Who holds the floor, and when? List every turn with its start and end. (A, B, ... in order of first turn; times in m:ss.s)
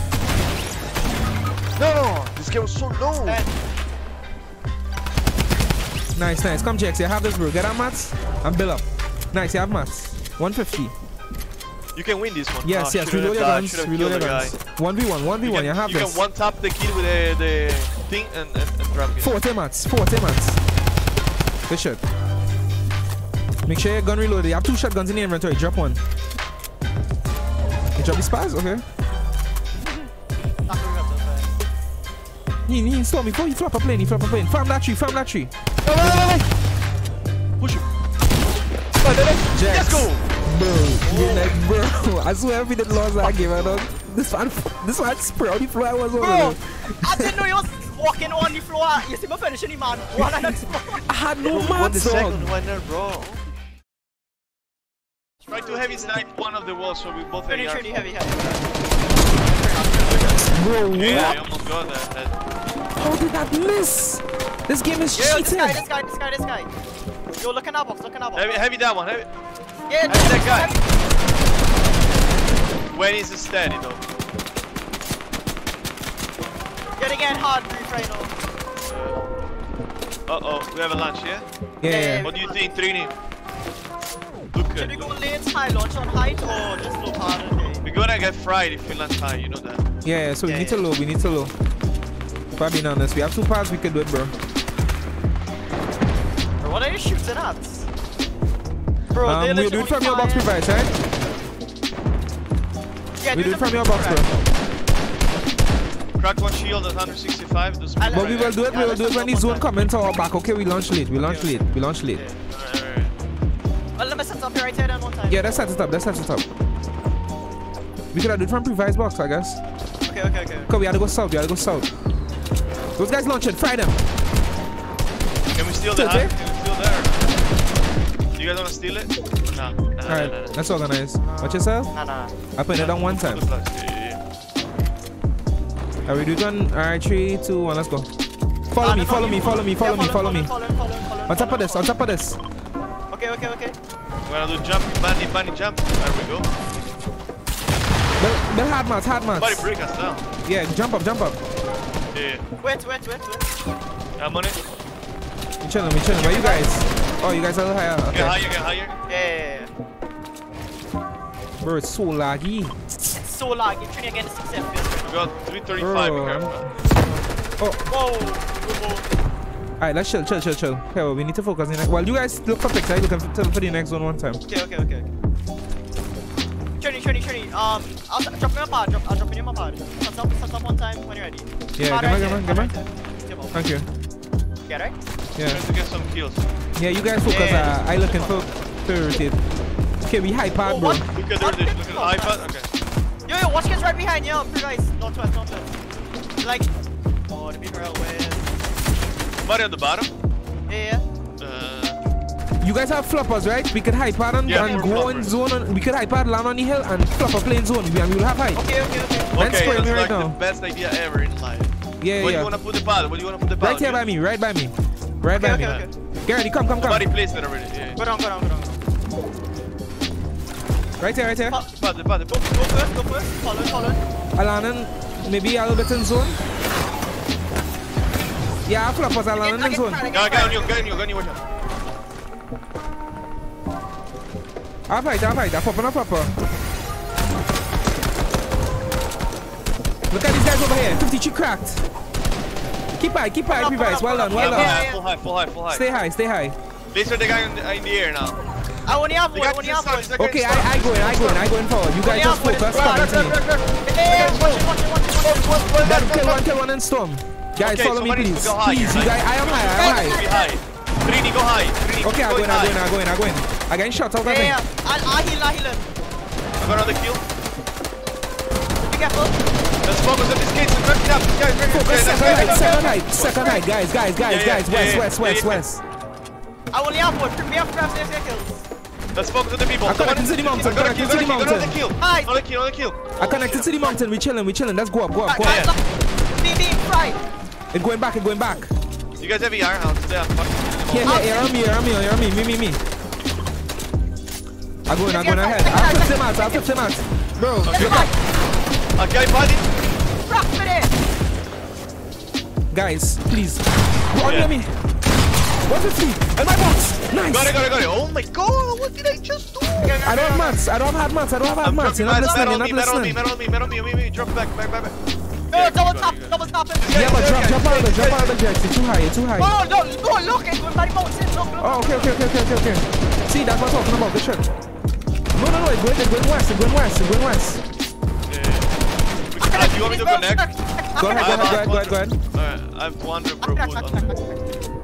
0:01.8-0:03.4 A
0:03.2-0:03.5 B
0:06.1-0:10.9 C
0:11.9-0:14.6 A
0:12.6-0:16.2 C
0:15.4-0:19.4 A
0:19.2-0:20.6 C
0:21.7-0:22.0 C
0:23.6-0:26.0 C
0:28.0-0:28.8 C
0:30.6-0:31.6 B
0:32.6-0:36.3 C
0:35.8-0:36.4 A
0:37.6-0:37.8 A
0:39.0-0:40.2 A
0:39.5-0:47.4 C
0:41.0-0:41.5 B
0:46.2-0:51.0 B
0:50.2-0:52.5 C
0:51.4-0:53.4 A
0:55.4-0:56.2 B
0:55.5-0:58.0 A
0:57.5-1:00.6 B
1:00.5-1:01.4 C
1:00.9-1:02.4 A
1:03.0-1:05.8 C
1:05.1-1:06.7 B
1:07.4-1:08.6 B
1:08.3-1:09.3 A
1:09.9-1:10.8 B
1:10.0-1:10.7 A
1:12.9-1:14.0 A
1:17.0-1:18.3 B
1:18.8-1:19.3 A
1:20.3-1:21.4 A
1:21.8-1:22.3 C
1:21.8-1:22.6 B
1:22.2-1:23.1 A
1:24.5-1:25.2 A
1:24.7-1:27.8 B
1:27.8-1:29.8 A
1:30.0-1:31.5 C
1:30.4-1:30.9 B
1:32.6-1:34.3 C
1:36.6-1:37.8 B
1:39.1-1:40.5 B
1:39.2-1:40.9 C
1:43.2-1:44.4 B
1:43.3-1:44.3 C
1:46.2-1:48.6 A
1:48.0-1:49.7 B
1:48.1-1:52.2 C
1:51.2-1:52.3 B
1:52.2-1:53.1 A
1:54.0-1:55.4 B
1:55.3-1:56.4 C
1:58.1-1:59.6 C
2:00.0-2:00.7 B
2:00.7-2:01.9 C
2:03.0-2:04.0 C
2:05.5-2:07.4 A
2:05.9-2:06.3 C
2:08.3-2:10.6 A
2:10.0-2:11.9 C
2:11.2-2:12.3 B
2:12.6-2:13.4 C
2:12.7-2:14.2 A
2:16.0-2:18.1 C
2:18.7-2:20.5 C
2:18.8-2:21.9 B
2:21.3-2:22.4 C
2:23.1-2:23.8 B
2:24.2-2:26.5 A
2:28.2-2:29.7 C
2:29.3-2:30.3 A
2:30.4-2:31.4 C
2:32.1-2:32.4 A
2:32.6-2:33.4 B
2:34.2-2:34.6 A
2:35.6-2:38.4 C
2:36.1-2:36.8 B
2:38.1-2:38.9 A
2:39.1-2:39.7 B
2:41.6-2:42.8 C
2:43.2-2:45.3 B
2:45.1-2:46.7 A
2:45.8-2:46.6 C
2:47.9-2:49.1 B
2:49.8-2:54.4 C
2:54.5-2:55.1 B
2:56.8-3:03.7 B
3:01.8-3:02.7 C
3:03.5-3:03.8 C
3:04.7-3:05.0 B
3:05.4-3:06.5 A
3:06.8-3:09.4 C
3:07.2-3:08.5 B
3:10.0-3:11.0 C
3:10.6-3:12.4 B
3:11.1-3:12.7 A
3:13.3-3:15.7 B
3:16.4-3:16.7 B
3:17.3-3:18.5 B
3:19.4-3:20.1 A
3:20.7-3:21.0 B
3:21.4-3:22.0 A
3:22.6-3:28.6 C
3:24.4-3:25.4 A
3:24.6-3:25.0 B
3:28.5-3:29.8 B
3:29.3-3:34.0 A
3:29.3-3:30.4 C
3:32.0-3:32.5 C
3:33.6-3:37.1 C
3:35.3-3:35.9 B
3:35.6-3:35.9 A
3:36.8-3:38.0 A
3:38.0-3:38.8 B
3:41.0-3:41.6 C
3:41.8-3:42.7 A
3:42.3-3:44.0 B
3:44.4-3:46.4 C
3:48.6-3:50.0 C
3:49.4-3:51.0 B
3:50.1-3:51.4 A
3:54.9-3:56.3 C
4:00.1-4:01.8 C
4:03.0-4:04.8 C
4:03.5-4:05.0 B
4:04.3-4:05.8 A
4:05.7-4:06.6 C
4:06.9-4:08.4 A
4:08.8-4:10.2 B
4:09.3-4:11.5 A
4:10.2-4:13.4 C
4:12.0-4:13.2 B
4:12.7-4:14.7 A
4:13.8-4:15.7 B
4:15.2-4:16.4 A
4:15.8-4:20.2 C
4:17.6-4:22.9 A
4:19.5-4:20.5 B
4:22.0-4:24.6 C
4:24.2-4:25.9 B
4:26.6-4:27.2 A
4:28.8-4:29.4 B
4:29.8-4:33.6 A
4:31.7-4:35.8 C
4:32.1-4:33.6 B
4:34.2-4:35.6 A
4:36.7-4:38.6 B
4:39.1-4:43.9 A
4:39.8-4:41.8 C
4:42.0-4:42.3 B
4:43.2-4:45.6 C
4:45.2-4:45.8 B
4:45.4-4:45.7 A
4:46.4-4:47.2 B
4:47.7-4:48.7 C
4:49.2-4:51.4 A
4:50.9-4:52.8 C
4:51.0-4:51.8 B
4:54.9-4:58.1 C
4:55.0-4:56.7 B
4:57.6-4:58.1 A
4:57.7-4:58.2 B
4:59.0-4:59.7 A
5:00.2-5:00.9 B
5:02.7-5:04.7 C
5:04.2-5:04.5 A
5:05.6-5:07.5 C
5:07.2-5:10.0 A
5:09.8-5:10.6 B
5:09.9-5:13.2 C
5:11.6-5:15.0 A
5:15.5-5:17.1 B
5:15.5-5:18.4 A
5:16.9-5:19.5 C
5:19.4-5:22.2 B
5:21.6-5:24.5 C
5:25.3-5:27.6 C
5:28.3-5:28.7 A
5:29.3-5:34.1 A
5:29.4-5:31.6 B
5:31.0-5:32.2 C
5:33.4-5:34.4 B